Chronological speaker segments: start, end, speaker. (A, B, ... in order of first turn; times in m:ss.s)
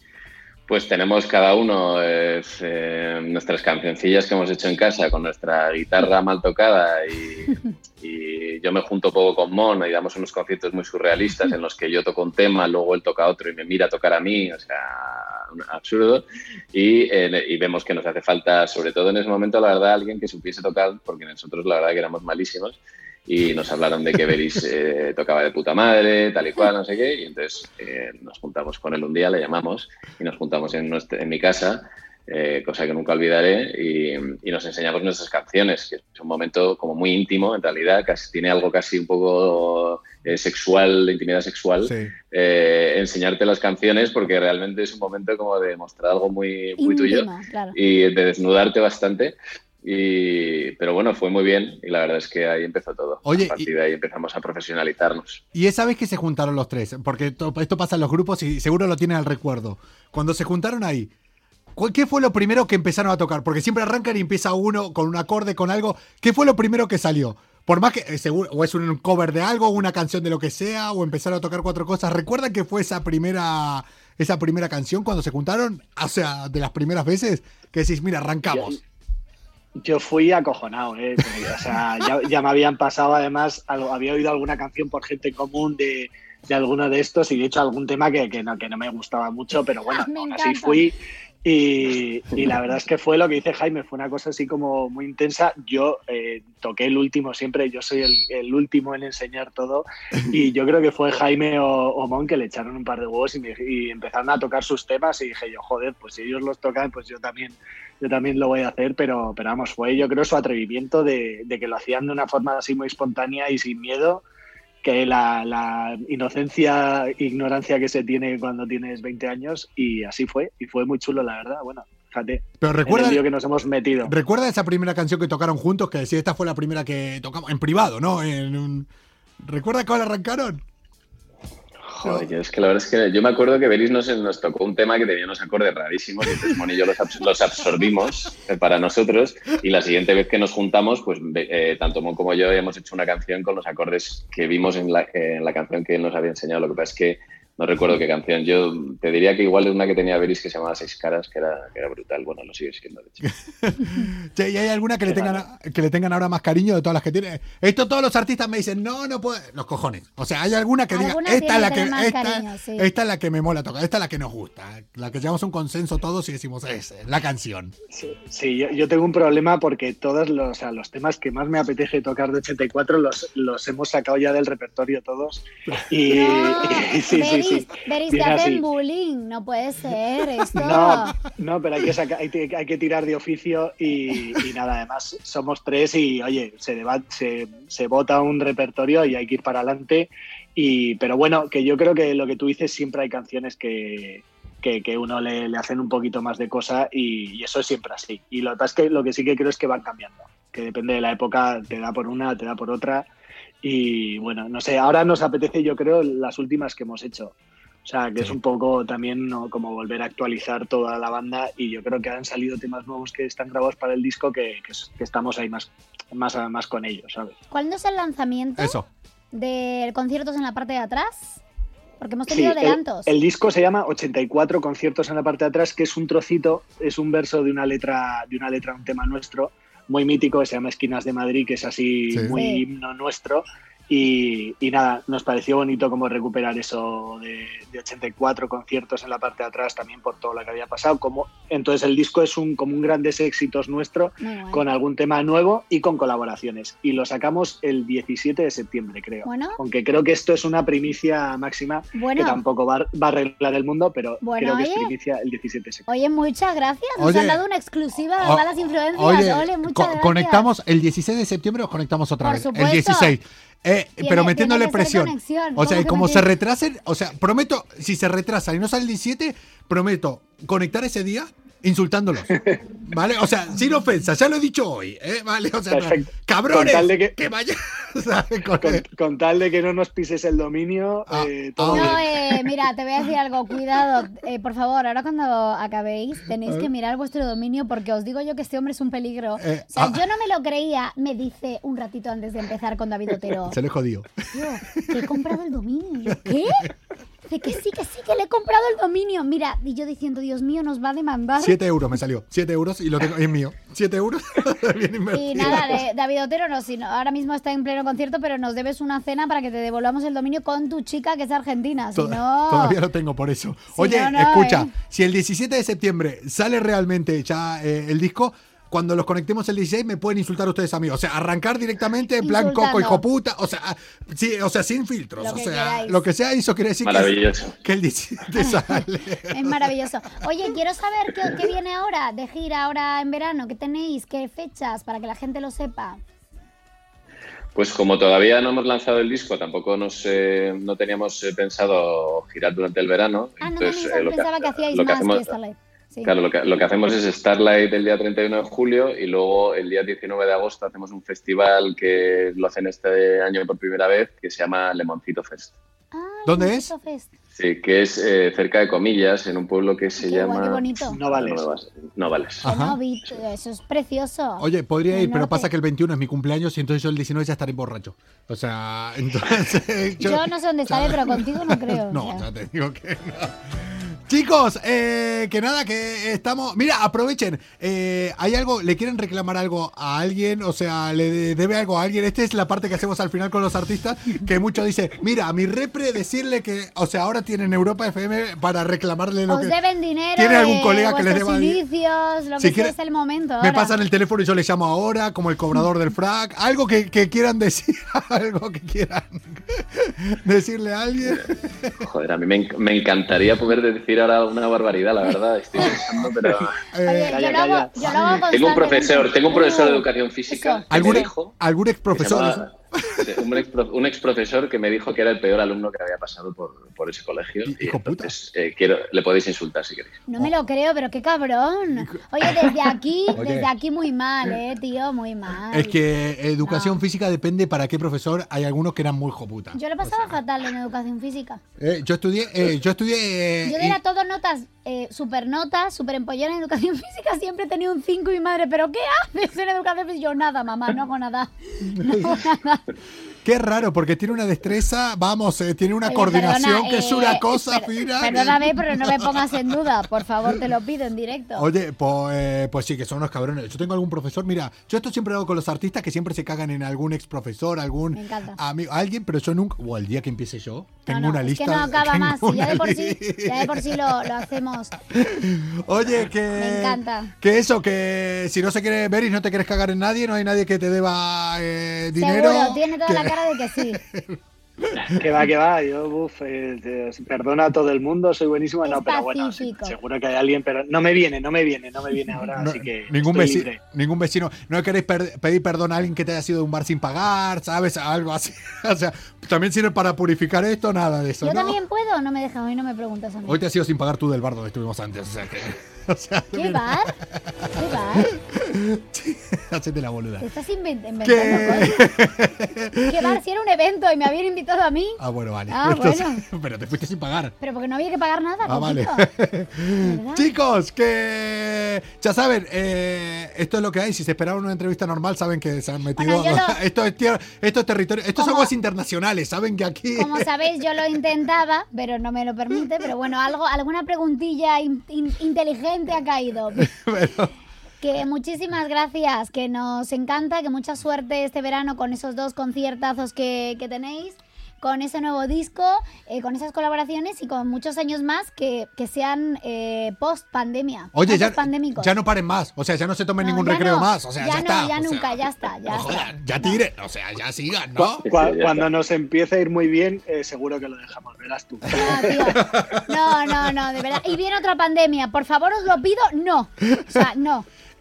0:00.7-0:55.4 A
0:41.8-0:42.1 B
0:46.8-0:47.8 C
0:53.2-0:53.7 B
0:55.5-1:01.1 B
1:01.7-1:18.8 B
1:19.8-1:54.2 D
1:29.9-1:30.8 C
1:54.8-2:04.1 D
2:02.6-2:03.3 B
2:04.0-2:08.9 B
2:09.4-2:10.6 B
2:11.9-2:33.2 A
2:33.2-2:47.7 B
2:40.9-2:42.9 C
2:47.9-2:58.6 D
2:56.1-3:01.2 C
3:00.5-3:23.1 D
3:23.6-3:37.3 D
3:37.5-3:38.8 C
3:38.6-3:38.9 B
3:39.3-3:41.4 C
3:42.0-3:43.1 C
3:42.3-4:15.8 D
3:52.1-3:52.4 B
3:52.3-3:52.6 C
4:04.2-4:04.6 C
4:09.2-4:09.6 C
4:11.9-4:12.4 C
4:14.2-4:14.9 C
4:15.9-4:20.5 C
4:17.0-4:17.4 B
4:18.2-4:38.8 B
4:22.2-4:23.1 C
4:24.0-4:26.2 C
4:35.7-4:37.1 D
4:38.6-4:42.0 D
4:41.1-4:42.4 B
4:41.7-4:53.6 C
4:49.4-4:50.0 B
4:53.3-4:55.2 B
4:54.3-4:56.7 C
4:56.1-4:56.7 B
4:57.3-5:01.6 C
5:01.4-5:05.8 B
5:05.1-5:12.8 C
5:11.9-5:29.7 B
5:13.7-5:14.7 C
5:22.2-5:23.0 C
5:25.2-5:26.0 C
5:26.8-5:27.6 A
5:28.4-5:36.0 C
5:37.5-5:45.3 A
5:43.4-5:46.1 C
5:46.0-5:55.6 A
5:55.9-5:57.1 C
5:56.2-5:56.7 B
5:57.3-6:02.4 A
6:00.0-6:01.0 C
6:00.9-6:01.4 D
6:02.4-6:02.8 B
6:02.4-6:05.5 C
6:04.4-6:29.6 B
6:10.0-6:12.2 C
6:29.3-6:33.8 C
6:30.2-6:31.6 B
6:32.4-6:32.7 B
6:33.4-6:41.7 B
6:41.8-6:46.6 A
6:46.7-6:47.2 B
6:46.8-6:51.1 C
6:47.1-6:48.1 D
6:47.8-6:51.4 A
6:50.7-6:53.4 B
6:51.9-7:00.0 A
6:57.4-6:58.1 B
7:00.1-7:05.8 C
7:01.8-7:03.5 B
7:05.5-7:10.1 B
7:06.4-7:06.8 C
7:09.5-7:11.4 C
7:11.6-7:13.8 B
7:13.4-7:22.6 C
7:21.7-7:22.2 B
7:23.2-7:29.4 B
7:25.8-7:31.5 C
7:31.4-7:44.3 B
7:37.9-7:38.4 C
7:40.9-7:44.7 C
7:44.8-7:55.0 B
7:46.3-7:47.1 C
7:52.0-7:53.8 C
7:54.9-8:03.6 D
7:58.6-7:59.8 C
8:02.4-8:11.6 B
8:11.2-8:13.4 C
8:13.2-8:20.3 B
8:16.3-8:16.9 C
8:17.5-8:18.1 C
8:20.2-8:21.9 C
8:21.0-8:23.2 B
8:22.8-8:26.2 C
8:25.0-8:27.3 B
8:27.4-8:29.1 C
8:28.4-8:40.3 B
8:29.8-8:30.3 C
8:35.9-8:36.6 C
8:38.2-8:38.5 C
8:39.9-8:46.7 C
8:46.6-8:47.3 B
8:47.8-9:01.9 C
9:00.9-9:05.1 B
9:03.2-9:06.6 C
9:05.7-9:08.0 B
9:07.8-9:12.2 D
9:08.0-9:08.7 A
9:11.7-9:17.5 C
9:11.8-9:13.5 B
9:16.7-9:17.0 B